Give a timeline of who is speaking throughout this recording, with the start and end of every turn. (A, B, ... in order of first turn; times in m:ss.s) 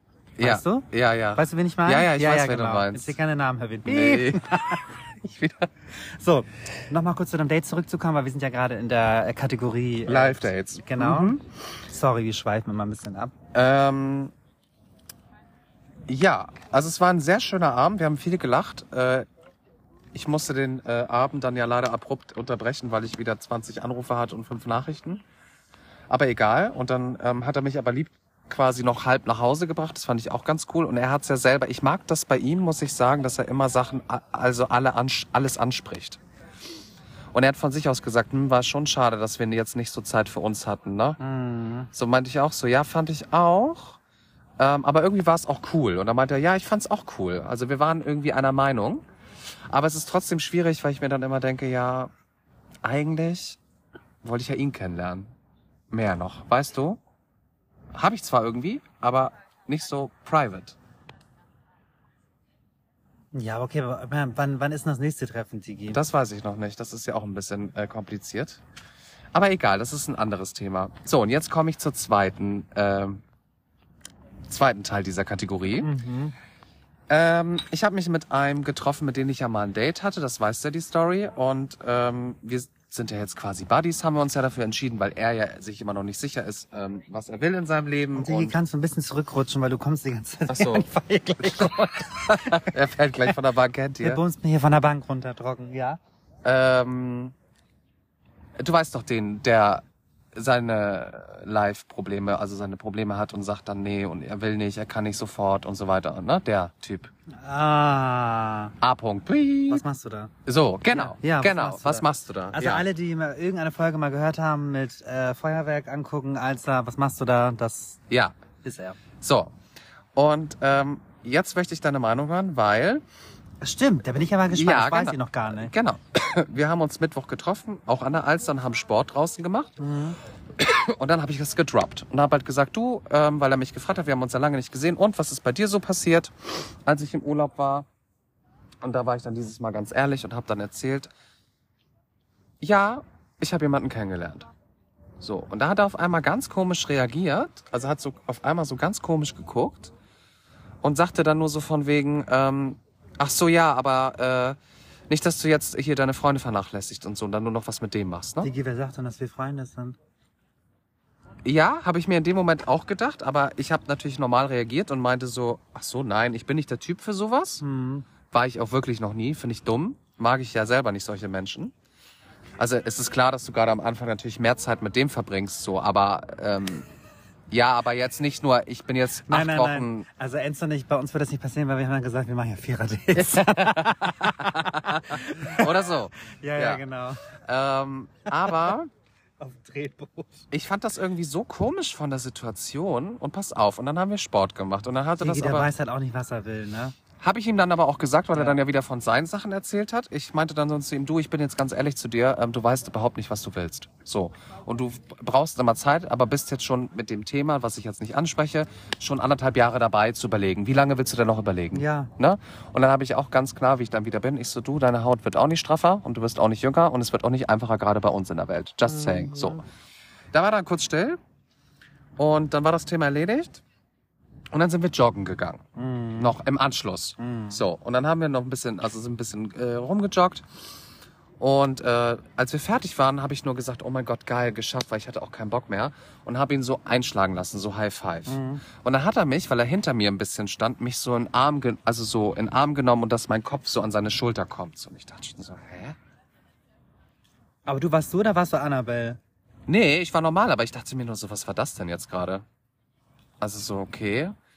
0:00.4-0:03.1 A
0:00.4-0:05.0 B
0:03.8-0:05.7 A
0:05.9-0:13.3 B
0:10.1-0:11.4 A
0:13.5-0:14.3 A
0:16.1-0:19.3 A
0:20.1-0:25.2 A
0:26.1-0:36.2 A
0:37.3-0:41.2 A
0:41.2-0:41.9 B
0:41.9-0:44.0 A
0:44.6-0:52.1 A
0:52.8-0:53.6 A
0:54.2-0:55.3 A
0:55.9-0:57.0 A
0:57.9-1:00.8 A
1:03.3-1:06.0 B
1:05.9-1:08.6 A
1:09.3-1:13.2 A
1:14.5-1:15.9 A
1:15.8-1:16.3 B
1:17.1-1:28.6 A
1:28.2-1:32.7 B
1:30.5-1:30.9 A
1:31.6-1:34.2 A
1:34.0-1:36.0 B
1:36.4-1:37.3 A
1:38.6-1:47.1 A
1:47.4-1:48.7 B
1:48.8-1:49.8 A
1:49.7-1:50.3 B
1:50.4-1:52.8 A
1:50.9-1:58.0 B
1:58.1-1:58.3 A
1:58.6-1:59.0 B
1:59.2-1:59.5 A
2:00.1-2:03.0 A
2:03.6-2:05.7 B
2:04.5-2:09.7 A
2:09.8-2:10.2 B
2:10.6-2:17.9 A
2:18.8-2:21.1 A
2:22.6-2:24.5 A
2:25.2-2:29.9 A
2:30.8-2:34.6 A
2:35.1-2:38.5 A
2:38.4-2:40.0 B
2:41.4-2:47.6 A
2:47.6-2:48.1 B
2:48.3-2:51.7 A
2:52.6-2:56.9 A
2:57.5-3:00.0 A
2:59.2-3:07.3 B
3:03.1-3:06.8 A
3:07.3-3:08.9 A
3:08.4-3:08.7 B
3:09.4-3:10.4 B
3:10.5-3:15.7 A
3:15.2-3:16.9 B
3:17.2-3:39.6 A
3:31.7-3:32.1 B
3:38.8-3:39.6 B
3:40.3-3:41.2 A
3:42.2-3:43.6 A
3:44.5-3:45.6 A
3:45.8-3:46.4 B
3:46.2-3:50.6 A
3:47.2-3:47.6 B
3:51.4-4:06.0 A
3:58.3-3:58.6 B
4:07.6-4:09.2 B
4:09.7-4:12.4 A
4:13.4-4:14.4 A